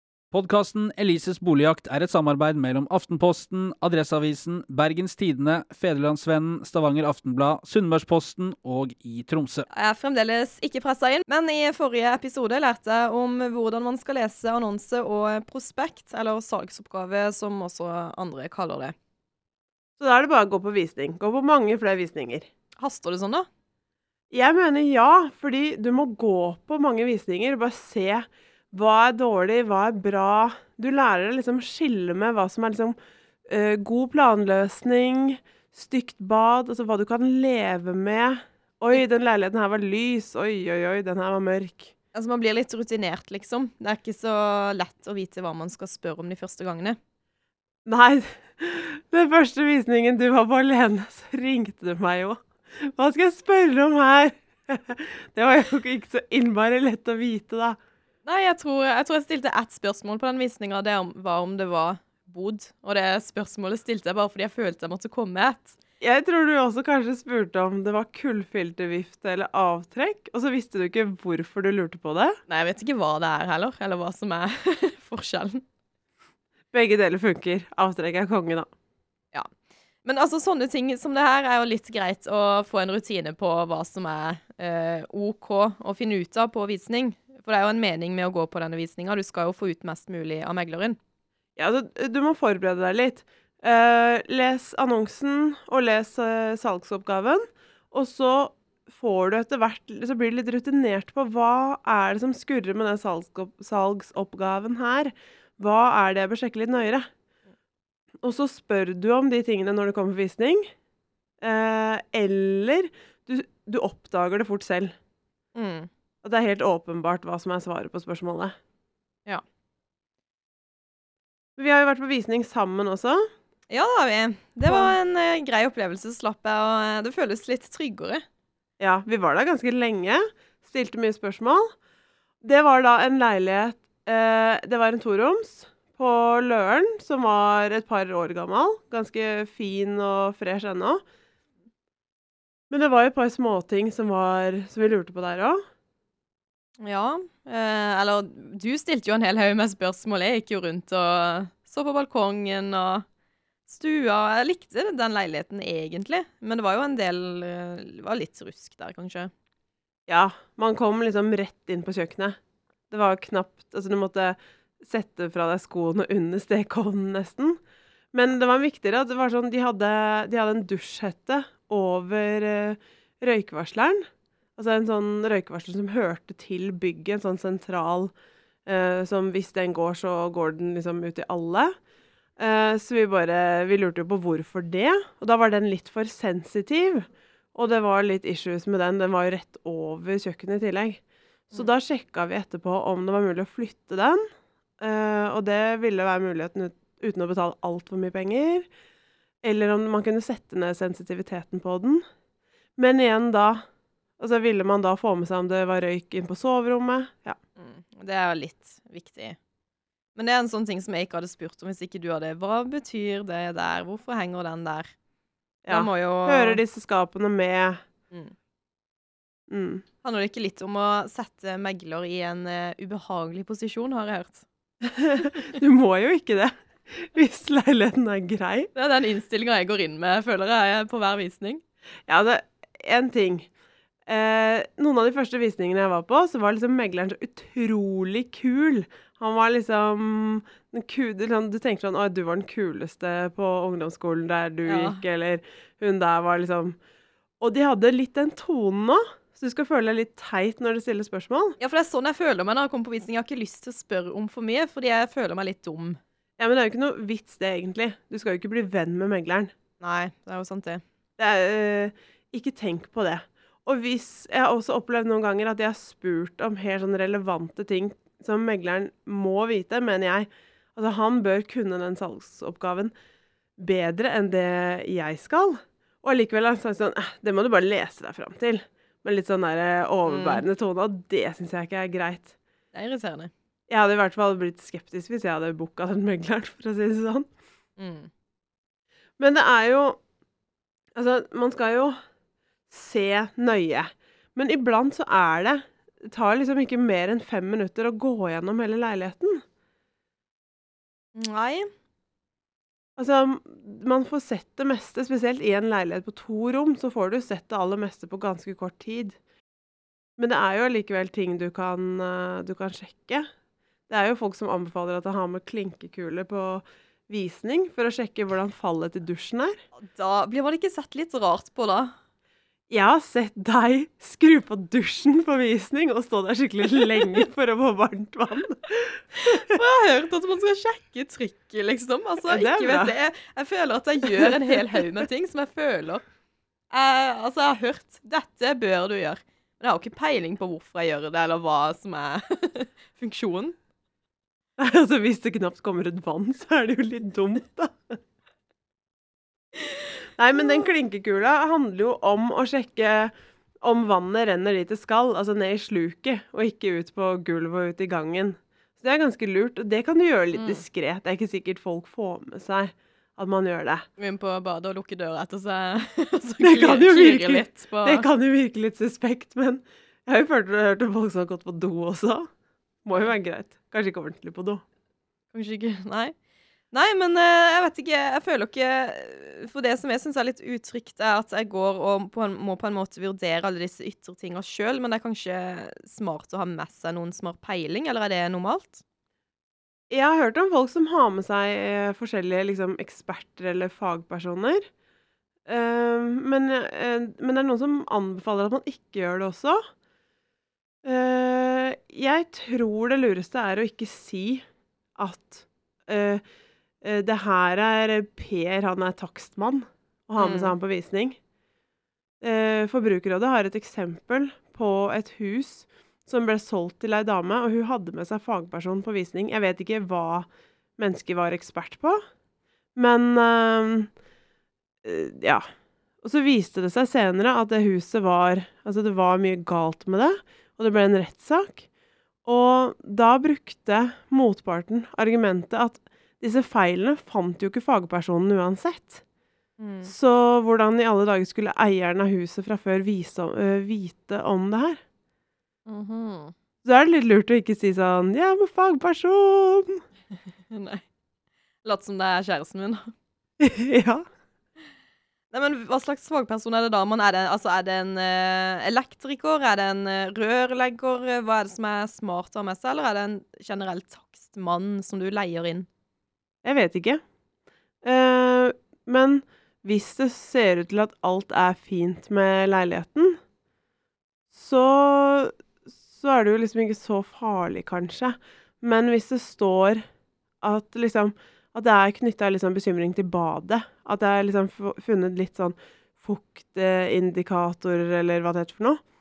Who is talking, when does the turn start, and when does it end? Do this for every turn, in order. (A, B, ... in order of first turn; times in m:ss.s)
0:00.3-0:09.6 A
0:09.7-0:18.9 B
0:20.0-0:22.5 C
0:22.8-0:23.5 B
0:24.3-0:41.9 C
0:42.1-0:47.0 B
0:47.8-0:57.8 C
0:58.2-1:05.8 B
1:06.0-1:12.4 C
1:12.5-1:15.6 B
1:16.7-1:18.7 C
1:20.0-1:31.0 B
1:31.6-1:47.1 C
1:48.2-1:50.7 C
1:51.4-1:54.9 C
1:55.5-1:55.9 B
1:56.2-1:58.5 C
2:01.6-2:03.2 C
2:03.7-2:08.2 B
2:04.6-2:04.9 C
2:08.8-2:11.7 C
2:12.4-2:21.0 C
2:22.7-2:25.6 C
2:26.8-2:33.0 B
2:33.7-2:39.3 B
2:40.1-2:42.4 C
2:42.9-2:47.6 C
2:48.1-2:58.1 C
2:58.6-3:01.7 C
3:02.4-3:14.2 C
3:14.8-3:18.7 C
3:19.4-3:22.0 C
3:22.8-3:23.6 C
3:24.2-3:27.4 C
3:27.6-3:29.4 B
3:30.2-3:34.9 B
3:35.6-3:37.8 C
3:35.7-3:36.6 B
3:39.5-3:39.8 C
3:40.0-3:44.4 B
3:44.9-3:48.7 C
3:48.7-3:51.6 B
3:52.1-3:53.5 C
3:54.1-4:06.8 C
4:04.6-4:05.0 B
4:07.4-4:11.6 C
4:11.6-4:16.0 B
4:16.4-4:19.5 C
4:19.8-4:20.8 B
4:21.2-4:32.9 C
4:33.6-4:42.3 C
4:40.0-4:40.4 B
4:42.7-4:43.3 B
4:43.7-4:47.3 C
4:47.8-4:48.1 B
4:49.2-4:50.0 C
4:51.0-4:52.0 C
4:52.7-4:59.4 C
5:01.2-5:01.7 B
5:03.0-5:09.2 C
5:10.2-5:13.3 C
5:13.9-5:19.5 C
5:19.8-5:21.9 B
5:22.7-5:29.2 C
5:29.2-5:36.0 B
5:32.3-5:32.9 C
5:36.7-5:43.6 B
5:44.6-5:48.0 C
5:50.2-6:03.8 C
6:00.3-6:00.6 B
6:04.0-6:08.0 B
6:06.4-6:12.3 C
6:12.8-6:14.6 C
6:15.3-6:16.1 B
6:16.7-6:28.8 B
6:29.9-6:34.7 C
6:35.4-6:39.6 C
6:40.8-6:44.4 C
6:45.0-6:46.2 C
6:46.8-6:51.2 C
6:50.2-6:50.6 B
6:52.2-7:02.0 C
7:02.7-7:03.9 C
7:04.8-7:05.4 C
7:06.0-7:11.6 C
7:12.2-7:19.0 C
7:19.6-7:19.9 B
7:19.8-7:24.8 C
7:25.7-7:26.3 B
7:26.6-7:29.8 C
7:30.5-7:30.8 B
7:31.6-7:32.9 B
7:33.4-7:34.0 C
7:35.3-7:45.7 B
7:46.4-7:47.0 C
7:47.8-7:53.2 C
7:54.3-7:55.3 C
7:55.9-7:59.8 C
8:00.4-8:08.8 C